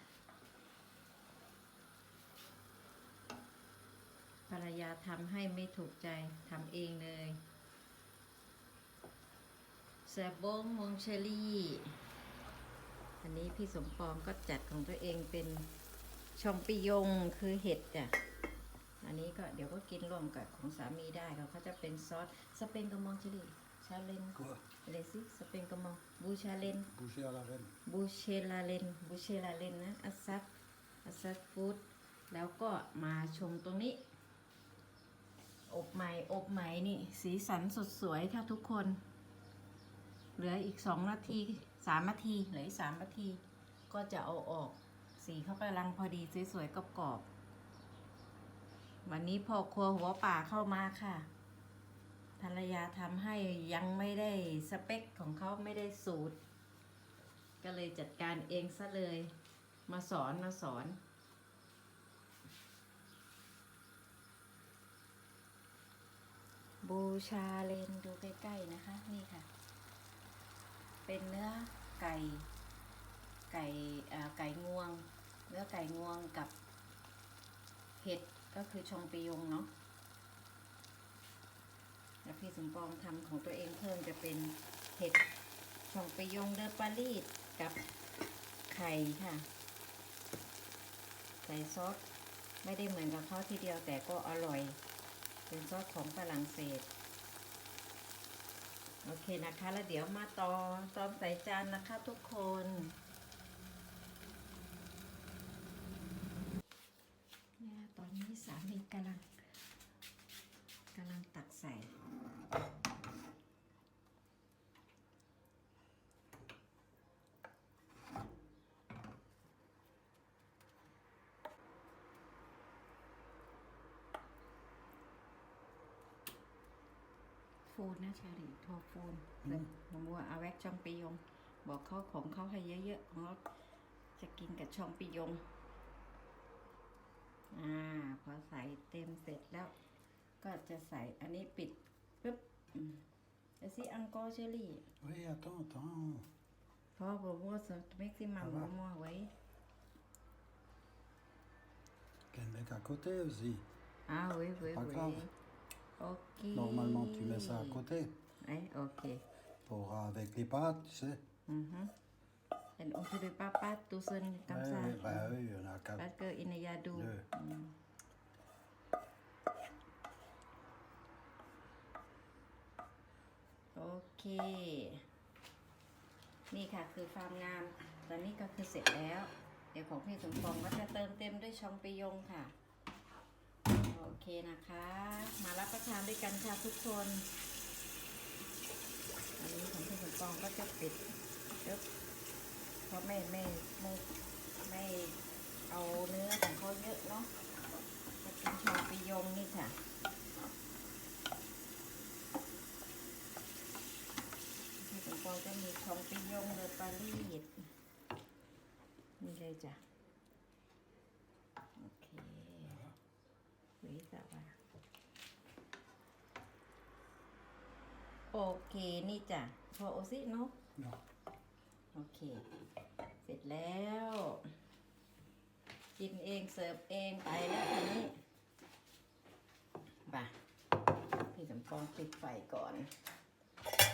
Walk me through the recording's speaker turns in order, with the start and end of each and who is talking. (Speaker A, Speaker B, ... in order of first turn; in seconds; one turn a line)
Speaker A: 4.5-7.4
Speaker A: 10.1-11.9
Speaker A: 13.2-15.7
Speaker A: 16.4-18.1
Speaker A: 19.0-26.9
Speaker B: 24.4-24.6
Speaker B: 26.9-27.7
Speaker A: 27.9-30.4
Speaker A: 31.0-34.0
Speaker A: 35.7-39.0
Speaker A: 40.4-47.2
Speaker A: 49.0-51.3
Speaker A: 52.4-56.4
Speaker A: 57.6-59.3
Speaker A: 59.9-61.0
Speaker A: 66.8-69.5
Speaker A: 71.0-72.5
Speaker A: 73.5-76.5
Speaker A: 78.0-79.7
Speaker A: 82.2-85.2
Speaker A: 85.9-87.8
Speaker A: 88.7-89.5
Speaker A: 91.4-92.0
Speaker A: 92.6-94.8
Speaker A: 95.5-96.9
Speaker A: 99.0-103.0
Speaker A: 107.6-109.4
Speaker A: 110.9-111.9
Speaker A: 127.7-133.4
Speaker A: 134.2-135.4
Speaker A: 137.5-139.7
Speaker A: 140.4-143.0
Speaker A: 143.6-144.8
Speaker B: 145.0-146.3
Speaker A: 146.9-149.3
Speaker B: 148.4-148.7
Speaker B: 152.3-153.6
Speaker A: 154.1-155.3
Speaker B: 154.6-155.2
Speaker A: 156.0-157.8
Speaker B: 156.5-158.2
Speaker A: 158.4-159.2
Speaker B: 159.7-161.2
Speaker A: 161.5-161.9
Speaker A: 162.8-165.3
Speaker B: 164.5-166.0
Speaker A: 165.9-167.7
Speaker B: 166.9-167.2
Speaker A: 173.7-175.0
Speaker A: 176.5-182.5
Speaker A: 183.7-187.3
Speaker A: 189.4-191.0
Speaker A: 192.8-194.0
Speaker A: 194.6-195.2
Speaker A: 195.7-197.3
Speaker A: 198.2-199.8
Speaker A: 204.8-207.7
Speaker A: 209.2-209.8
Speaker A: 211.8-212.8
Speaker A: 213.8-214.5
Speaker A: 218.3-220.5
Speaker A: 221.9-222.4
Speaker A: 223.2-224.5
Speaker A: 226.0-228.1
Speaker A: 230.1-230.3
Speaker A: 231.2-232.9